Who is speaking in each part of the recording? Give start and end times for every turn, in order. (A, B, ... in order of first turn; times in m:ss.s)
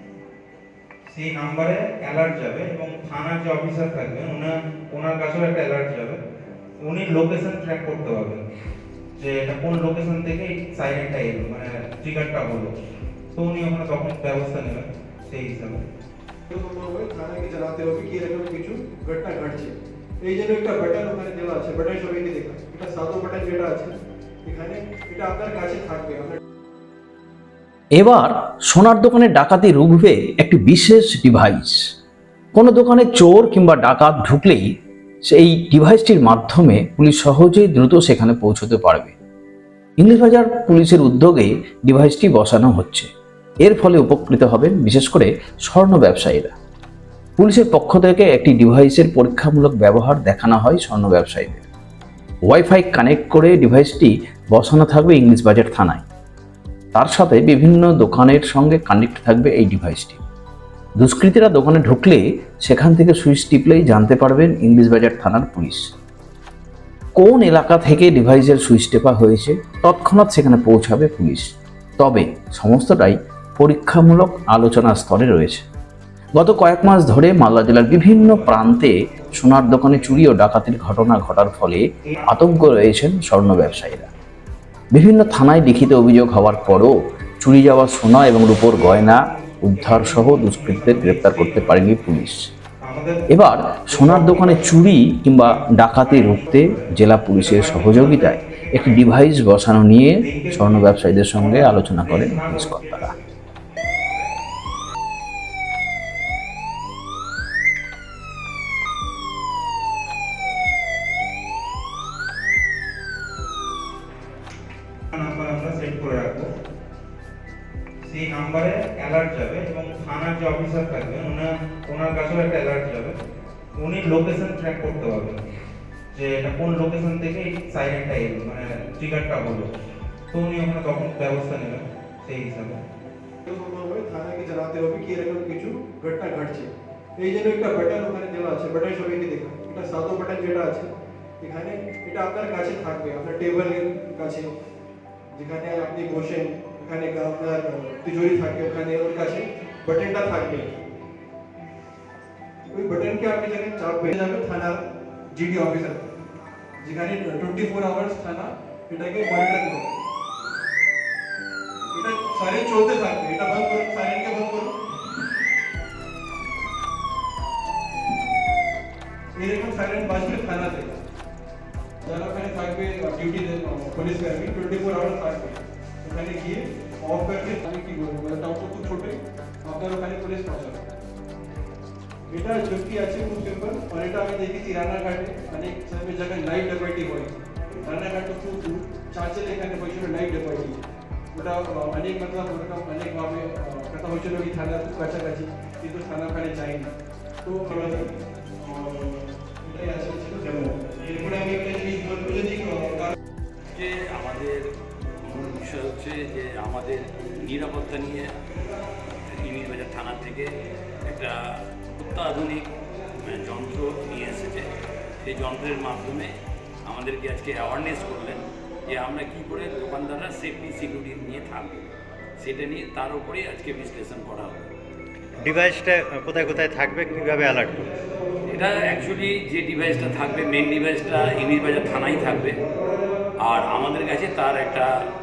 0:01.1-0:06.2 A
0:06.8-0:08.4 A
0:09.2-0:12.7 A
0:13.4-0:15.8 A
0:16.5-0:26.4 B
0:27.9-0:31.8 C
0:32.5-0:34.7 C
0:35.3-0:39.1 C
0:40.0-0:43.1 C
0:43.6-0:46.5 C
0:47.4-0:51.7 C
0:52.5-0:56.0 C
0:56.9-1:00.2 C
1:01.0-1:05.9 C
1:07.2-1:15.6 C
1:16.4-1:24.1 C
1:18.2-1:20.2 A
1:22.1-1:22.7 A
1:24.9-1:32.5 C
1:28.4-1:32.3 A
1:32.8-1:33.4 A
1:33.3-1:43.1 C
1:33.9-1:34.8 A
1:35.4-1:39.2 A
1:40.2-1:43.2 A
1:55.1-1:56.5 A
1:58.0-2:03.1 A
2:03.8-2:05.4 A
2:06.1-2:09.7 A
2:10.3-2:12.8 A
2:13.4-2:20.9 B
2:21.4-2:24.5 B
2:25.3-2:30.8 B
2:32.7-2:34.8 B
2:35.3-2:36.1 B
2:36.8-2:39.9 B
2:41.9-2:44.7 B
2:49.4-2:50.9 B
2:52.0-3:00.8 B
3:02.3-3:10.8 B
3:11.3-3:16.9 B
3:17.4-3:23.1 B
3:23.7-3:24.7 D
3:25.2-3:28.3 D
3:29.4-3:30.5 D
3:31.0-3:36.3 D
3:36.8-3:44.7 D
3:45.4-3:47.9 E
3:48.5-3:52.6 D
3:53.4-3:55.1 D